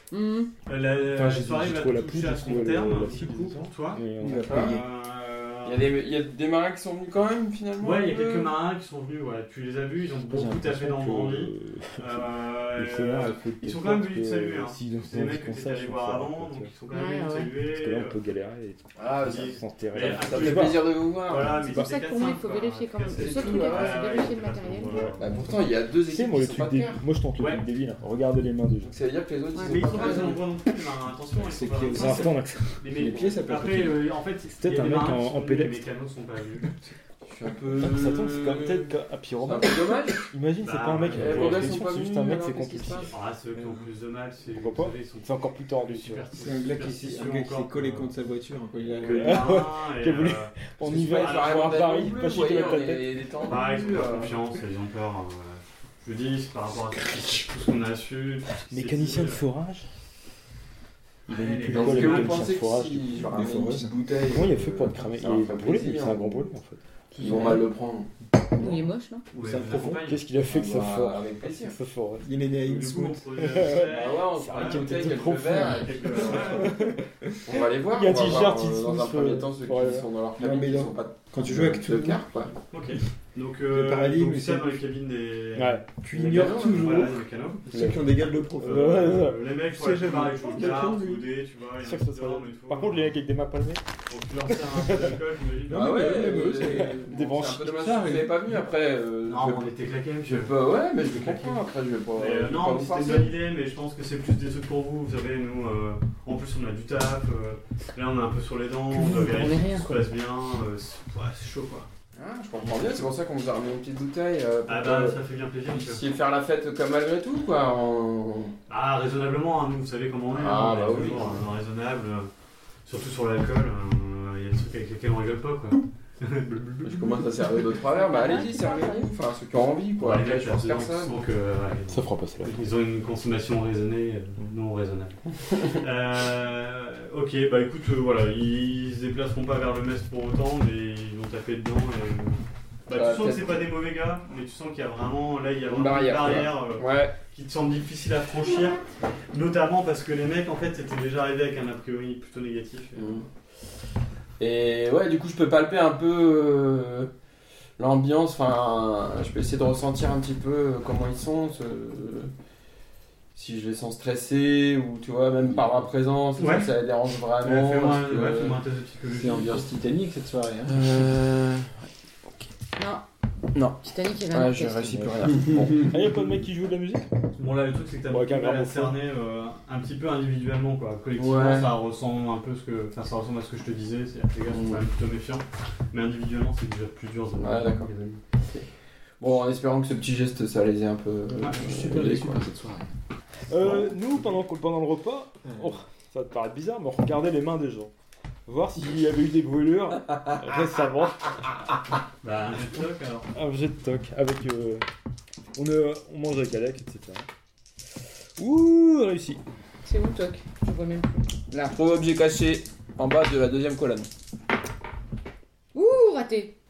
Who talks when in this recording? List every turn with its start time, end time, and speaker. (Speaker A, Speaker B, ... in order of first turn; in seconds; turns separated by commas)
Speaker A: 0.1-0.5, Speaker B: 0.7-5.9, Speaker C: 1.0-4.8, Speaker D: 4.2-4.8, Speaker E: 4.2-4.8, Speaker E: 5.7-8.5, Speaker B: 7.8-18.2, Speaker C: 10.3-16.7, Speaker A: 16.9-17.5, Speaker C: 17.6-20.9, Speaker E: 19.0-21.6, Speaker B: 19.2-25.4, Speaker C: 21.6-21.9, Speaker A: 21.7-25.0, Speaker E: 23.1-24.1, Speaker C: 24.8-25.5, Speaker E: 25.2-27.0, Speaker C: 26.0-28.9, Speaker B: 27.4-27.6, Speaker E: 28.8-30.4, Speaker B: 29.6-36.7, Speaker D: 31.4-32.3, Speaker C: 31.9-32.8, Speaker D: 32.9-34.0, Speaker C: 34.5-35.9, Speaker E: 37.2-40.3, Speaker C: 37.7-43.1, Speaker B: 40.6-41.8, Speaker E: 41.1-43.1, Speaker B: 43.0-48.1, Speaker C: 44.5-46.3, Speaker D: 46.4-49.5, Speaker B: 49.0-51.9, Speaker C: 49.0-53.5, Speaker E: 50.8-54.4, Speaker B: 53.4-59.4, Speaker C: 58.6-59.9, Speaker C: 61.3-63.3, Speaker B: 61.3-62.5, Speaker E: 61.7-66.5, Speaker D: 63.2-63.9, Speaker C: 64.3-67.6, Speaker D: 67.2-67.6, Speaker E: 67.2-68.1, Speaker A: 68.5-69.2, Speaker B: 69.3-70.2, Speaker C: 69.4-72.3, Speaker E: 70.5-71.8, Speaker D: 72.2-73.6, Speaker B: 72.6-76.8, Speaker C: 73.4-80.1, Speaker E: 73.8-76.7, Speaker E: 77.5-82.5, Speaker D: 80.4-82.5, Speaker B: 82.7-88.0, Speaker D: 83.7-84.8, Speaker C: 85.5-86.0, Speaker D: 86.0-91.2, Speaker E: 86.1-87.1, Speaker B: 88.6-93.2, Speaker C: 88.6-89.5, Speaker C: 91.8-93.8, Speaker B: 94.1-96.5, Speaker C: 94.5-95.2, Speaker D: 95.7-97.1, Speaker E: 95.7-99.7, Speaker C: 96.0-98.4, Speaker B: 99.3-101.6, Speaker E: 100.3-103.3, Speaker B: 102.2-111.9, Speaker A: 108.9-110.0, Speaker E: 112.2-115.2, Speaker B: 112.6-113.0, Speaker B: 114.7-116.0, Speaker E: 115.7-118.5, Speaker B: 118.7-122.3, Speaker E: 120.3-121.4, Speaker B: 122.9-127.1, Speaker E: 126.8-131.2, Speaker A: 127.9-129.1, Speaker B: 130.0-153.2, Speaker C: 131.9-132.6, Speaker E: 142.9-143.7, Speaker E: 145.7-147.2, Speaker E: 153.0-153.2, Speaker E: 154.4-157.1, Speaker E: 157.8-162.3, Speaker E: 163.3-168.6, Speaker B: 166.4-166.7, Speaker B: 167.4-169.7, Speaker D: 169.1-170.8, Speaker E: 170.7-171.8, Speaker A: 172.8-173.0, Speaker E: 173.5-176.2, Speaker A: 173.8-174.9, Speaker C: 174.9-177.1, Speaker B: 177.4-188.2, Speaker C: 178.1-179.0, Speaker E: 181.2-181.8, Speaker E: 184.5-184.8, Speaker E: 187.4-188.7, Speaker E: 189.2-192.4, Speaker B: 191.4-191.6, Speaker D: 191.4-192.9, Speaker C: 193.5-197.9, Speaker C: 198.5-201.4, Speaker B: 202.2-203.3, Speaker C: 203.3-204.8, Speaker C: 205.6-207.3, Speaker C: 208.4-209.4, Speaker A: 209.8-211.2, Speaker E: 211.5-214.1, Speaker A: 215.7-216.5